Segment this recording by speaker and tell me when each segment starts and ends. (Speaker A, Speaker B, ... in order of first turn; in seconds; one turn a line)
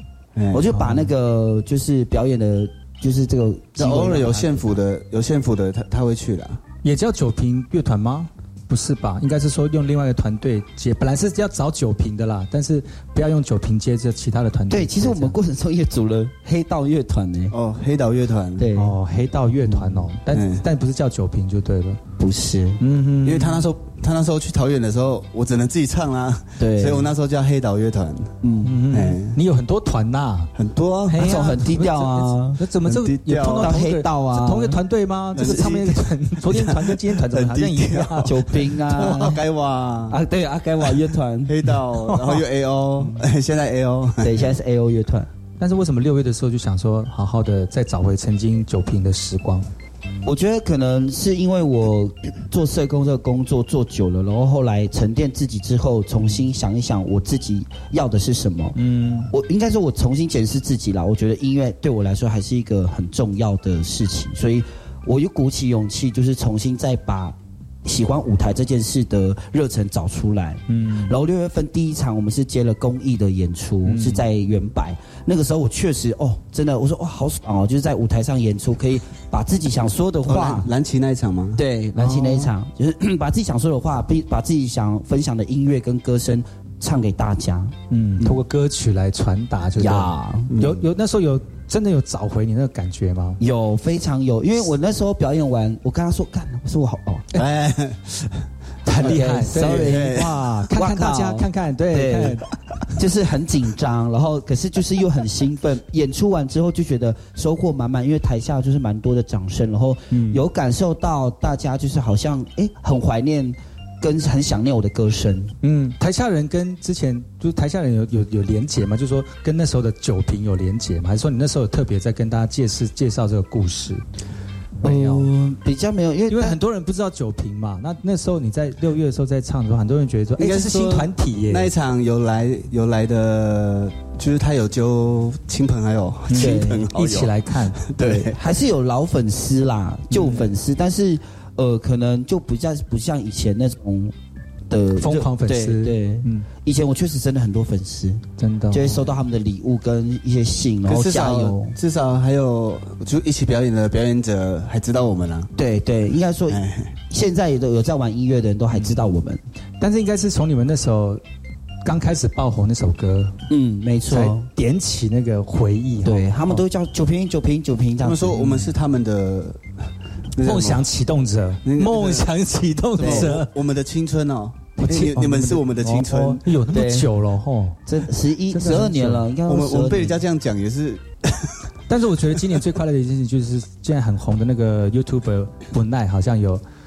Speaker A: 0.3-0.7
Speaker B: 0.5-4.8
Speaker C: 0.7-1.1
Speaker A: 3.8-6.6
Speaker C: 6.8-15.3
Speaker B: 14.7-17.6
Speaker A: 17.5-18.7
Speaker B: 18.6-18.9
Speaker C: 18.8-22.0
Speaker B: 19.7-20.1
Speaker A: 20.3-20.6
Speaker B: 22.2-22.8
Speaker C: 22.8-23.7
Speaker A: 23.2-28.4
Speaker B: 26.6-27.1
Speaker B: 28.4-28.7
Speaker C: 28.6-30.5
Speaker A: 28.9-29.4
Speaker A: 30.6-31.6
Speaker C: 31.1-38.4
Speaker B: 31.2-32.6
Speaker A: 32.9-33.8
Speaker B: 33.6-34.8
Speaker B: 35.4-35.7
Speaker A: 35.4-40.2
Speaker B: 38.2-39.4
Speaker B: 40.1-41.5
Speaker A: 41.5-44.5
Speaker B: 44.2-45.3
Speaker C: 45.6-49.7
Speaker B: 50.2-58.8
Speaker C: 58.8-59.3
Speaker B: 59.3-80.7
Speaker C: 70.7-71.2
Speaker C: 73.8-74.3
Speaker A: 80.2-81.6
Speaker B: 81.6-88.4
Speaker C: 82.0-82.5
Speaker C: 87.9-93.4
Speaker B: 89.8-90.5
Speaker A: 90.5-90.8
Speaker B: 93.4-97.3
Speaker A: 97.3-98.4
Speaker C: 98.8-102.5
Speaker B: 99.0-102.4
Speaker A: 99.0-100.5
Speaker B: 103.0-115.5
Speaker C: 110.1-110.4
Speaker C: 115.6-124.0
Speaker B: 124.8-126.6
Speaker C: 124.8-125.3
Speaker C: 126.3-131.7
Speaker A: 130.4-138.4
Speaker C: 136.3-137.8
Speaker B: 136.3-136.9
Speaker B: 138.0-144.2
Speaker C: 140.1-140.5
Speaker B: 144.7-151.8
Speaker C: 145.0-146.5
Speaker C: 148.4-149.0
Speaker A: 150.9-155.5
Speaker B: 155.6-159.4
Speaker A: 156.5-156.9
Speaker C: 159.8-161.2
Speaker C: 161.8-163.3
Speaker B: 163.5-164.5
Speaker C: 164.1-166.6
Speaker B: 166.0-168.5
Speaker A: 168.0-169.6
Speaker A: 170.4-170.8
Speaker C: 170.4-173.5
Speaker A: 171.7-172.3
Speaker A: 173.0-176.4
Speaker B: 173.0-173.3
Speaker C: 174.8-177.8
Speaker B: 176.7-177.1
Speaker B: 177.9-180.2
Speaker C: 178.5-179.3
Speaker A: 179.4-181.6
Speaker C: 181.9-186.6